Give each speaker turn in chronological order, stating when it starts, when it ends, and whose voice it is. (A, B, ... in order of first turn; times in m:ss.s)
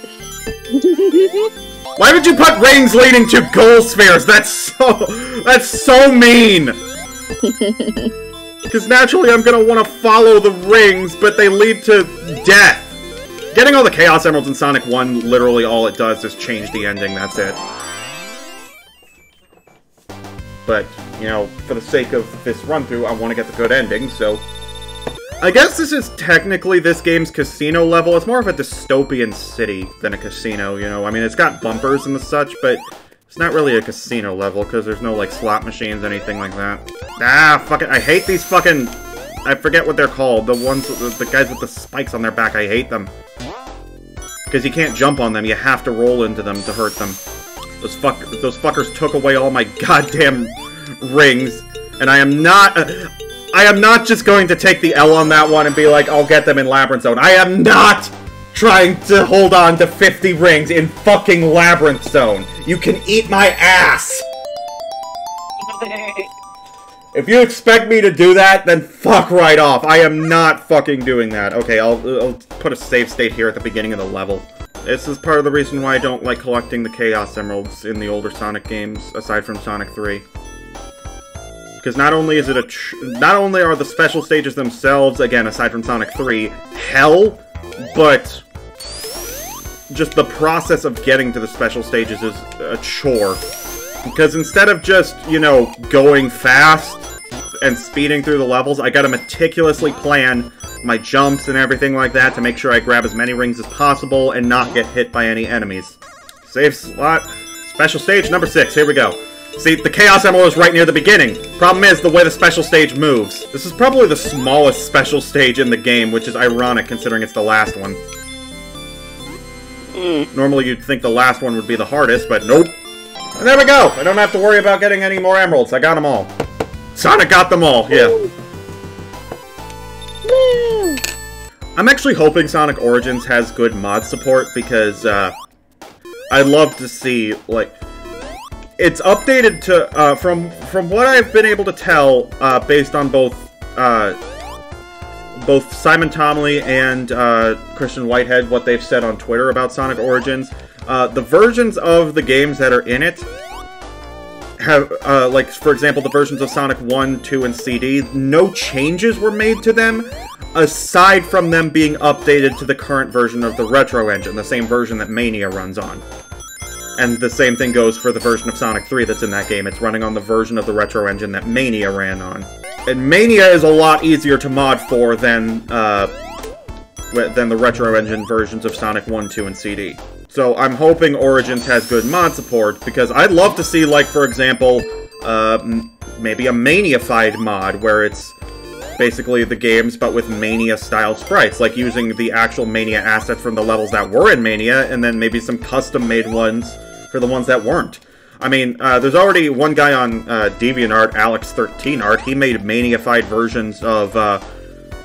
0:00.7-0:01.5 A
0:02.0-0:06.8 B
0:07.4-0:08.1 A
0:08.7-0:13.0 B
0:13.5-0:17.6 B
0:20.6-0:24.4 B
0:25.4-0:43.1 B
0:44.5-0:47.2 B
0:47.8-1:04.3 B
1:05.6-1:06.3 A
1:07.1-1:20.2 B
1:21.8-1:28.4 B
1:29.9-1:33.4 B
1:34.0-1:37.1 B
1:37.6-1:58.0 B
1:59.9-2:00.3 A
2:00.3-2:02.8 B
2:03.4-2:06.3 B
2:06.9-2:08.2 B
2:07.9-2:08.3 A
2:10.2-2:11.0 A
2:11.8-2:15.4 B
2:16.3-2:17.8 B
2:18.8-2:24.2 B
2:25.3-2:33.3 B
2:34.6-2:46.0 B
2:47.0-2:56.1 B
2:57.1-3:08.4 B
3:09.0-3:24.4 B